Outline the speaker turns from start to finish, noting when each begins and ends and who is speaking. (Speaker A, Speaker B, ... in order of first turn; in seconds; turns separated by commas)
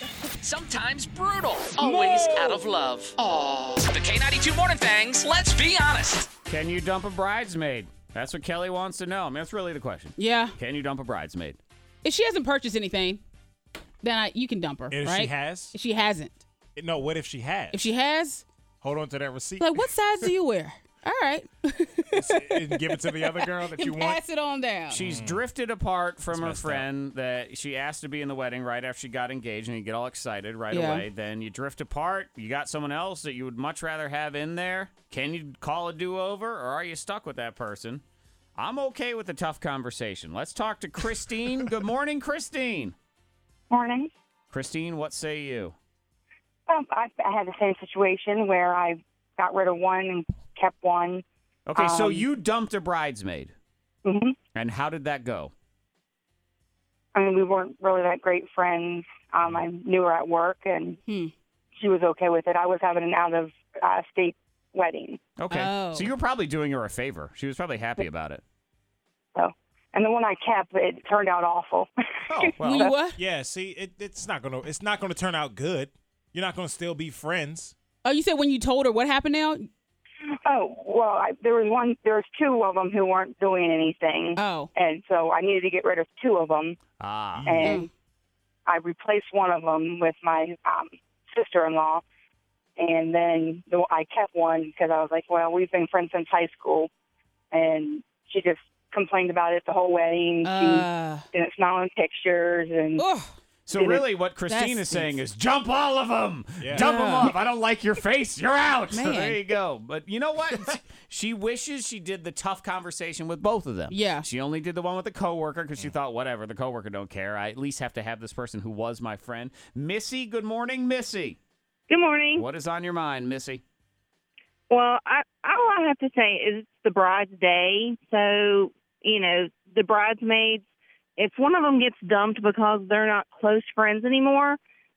Speaker A: 0.4-6.3, Speaker B: 1.8-2.6, Speaker C: 6.5-11.6, Speaker B: 10.2-10.5, Speaker B: 12.0-13.2, Speaker B: 14.0-16.4, Speaker D: 14.9-15.8, Speaker D: 16.8-17.8, Speaker B: 17.7-18.4, Speaker D: 18.8-20.3, Speaker B: 19.6-25.0, Speaker D: 22.1-24.2, Speaker C: 24.9-38.0, Speaker D: 24.9-25.4, Speaker D: 26.3-26.9, Speaker B: 30.7-31.1, Speaker C: 38.5-42.9, Speaker E: 43.7-44.1, Speaker C: 44.5-45.8, Speaker E: 46.7-51.2, Speaker C: 51.6-53.5, Speaker E: 51.8-52.2, Speaker E: 54.0-54.3, Speaker C: 54.5-55.5, Speaker E: 57.1-61.0, Speaker B: 61.1-61.3, Speaker E: 61.8-65.2, Speaker C: 65.4-68.4, Speaker B: 65.5-66.1, Speaker E: 69.3-71.9, Speaker C: 72.5-72.9, Speaker B: 72.6-73.2, Speaker D: 73.2-77.8, Speaker B: 78.0-79.7, Speaker E: 80.4-86.8, Speaker B: 84.3-84.7, Speaker C: 87.0-87.8, Speaker D: 87.4-87.8, Speaker E: 87.5-87.8, Speaker B: 87.6-87.9, Speaker E: 88.7-92.0, Speaker E: 92.8-96.9, Speaker E: 97.5-103.0, Speaker B: 100.4-101.2, Speaker B: 103.0-103.3, Speaker C: 103.7-121.4, Speaker B: 104.5-105.2, Speaker D: 106.6-106.9, Speaker B: 106.8-107.3, Speaker B: 108.9-109.5, Speaker B: 113.9-114.3, Speaker F: 121.9-122.4, Speaker C: 122.3-123.6, Speaker F: 124.7-130.6, Speaker F: 131.2-134.6